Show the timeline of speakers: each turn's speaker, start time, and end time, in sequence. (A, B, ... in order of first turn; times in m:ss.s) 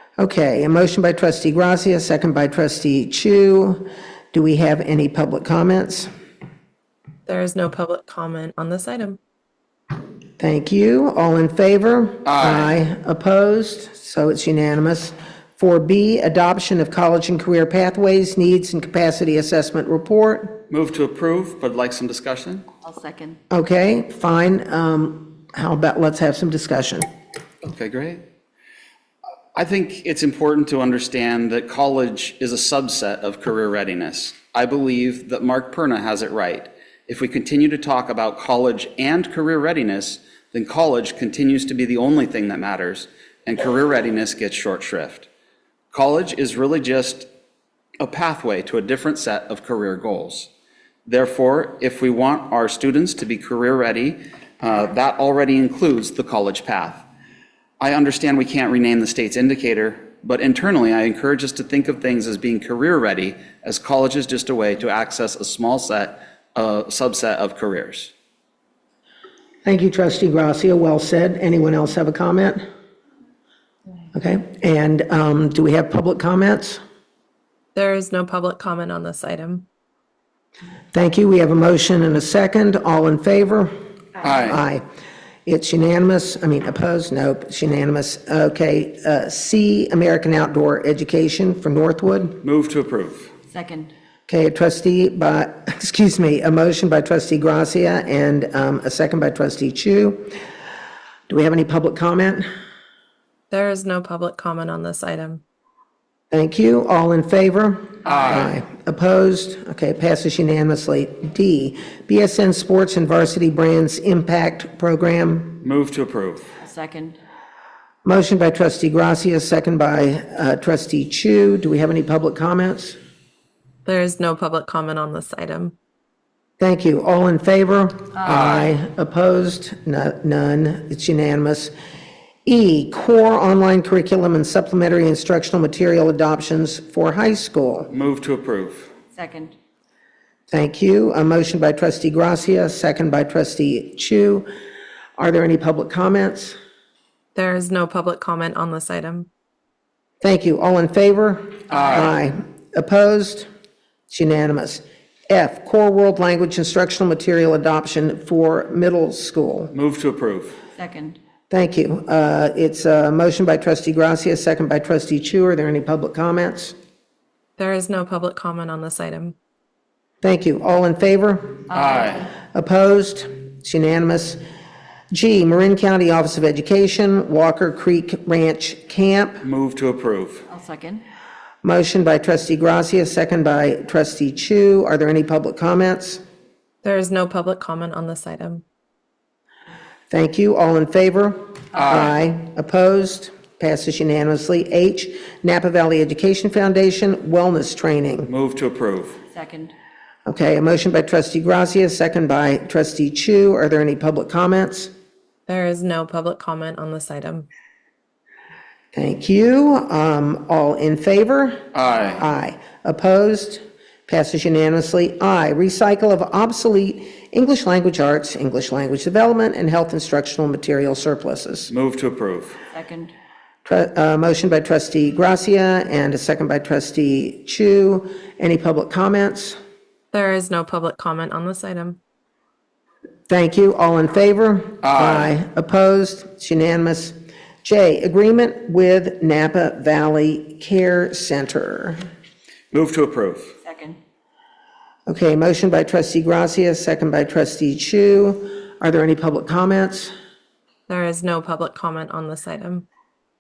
0:00.2-0:06.1 A
0:07.2-0:09.2 B
0:10.4-0:20.6 A
0:12.2-0:12.8 C
0:20.7-0:22.6 C
0:22.8-0:23.4 D
0:23.5-0:27.0 A
0:27.6-0:28.2 C
0:29.5-0:45.3 C
0:45.9-0:47.3 C
0:48.0-0:50.5 C
0:51.0-0:57.0 C
0:57.8-1:08.1 C
1:09.6-1:12.6 A
1:14.1-1:16.8 A
1:17.7-1:19.7 B
1:20.9-1:23.7 A
1:24.2-1:24.6 C
1:24.4-1:24.8 A
1:25.4-1:32.4 A
1:32.4-1:33.3 C
1:33.5-1:33.9 D
1:34.3-1:40.3 A
1:41.3-1:42.4 A
1:43.5-1:45.4 B
1:46.3-1:55.6 A
1:48.0-1:48.5 C
1:55.6-1:56.5 C
1:56.6-1:57.2 D
1:58.0-2:03.0 A
2:03.8-2:05.7 B
2:06.6-2:11.7 A
2:12.4-2:17.9 A
2:17.9-2:18.9 C
2:19.1-2:19.5 D
2:20.5-2:24.5 A
2:25.2-2:26.6 A
2:27.3-2:29.3 B
2:30.2-2:33.5 A
2:31.7-2:32.1 C
2:34.1-2:39.7 A
2:39.7-2:40.6 C
2:40.7-2:41.2 D
2:41.5-2:46.7 A
2:47.6-2:49.4 B
2:50.2-2:51.7 A
2:51.7-2:52.2 D
2:51.7-2:52.3 C
2:52.3-2:54.4 A
2:55.1-2:59.4 A
2:59.4-3:00.5 C
3:00.5-3:01.0 D
3:01.6-3:06.2 A
3:06.8-3:08.6 B
3:10.1-3:18.3 A
3:11.8-3:12.0 C
3:18.3-3:19.2 C
3:19.3-3:19.7 D
3:20.2-3:24.9 A
3:25.5-3:27.5 B
3:28.9-3:31.6 A
3:31.7-3:32.2 C
3:32.2-3:41.7 A
3:41.7-3:42.6 C
3:42.7-3:43.1 D
3:43.6-3:49.6 A
3:50.1-3:52.0 B
3:53.3-4:02.0 A
3:54.8-3:55.3 C
4:02.7-4:03.5 C
4:03.6-4:04.0 D
4:05.1-4:10.1 A
4:10.9-4:12.8 B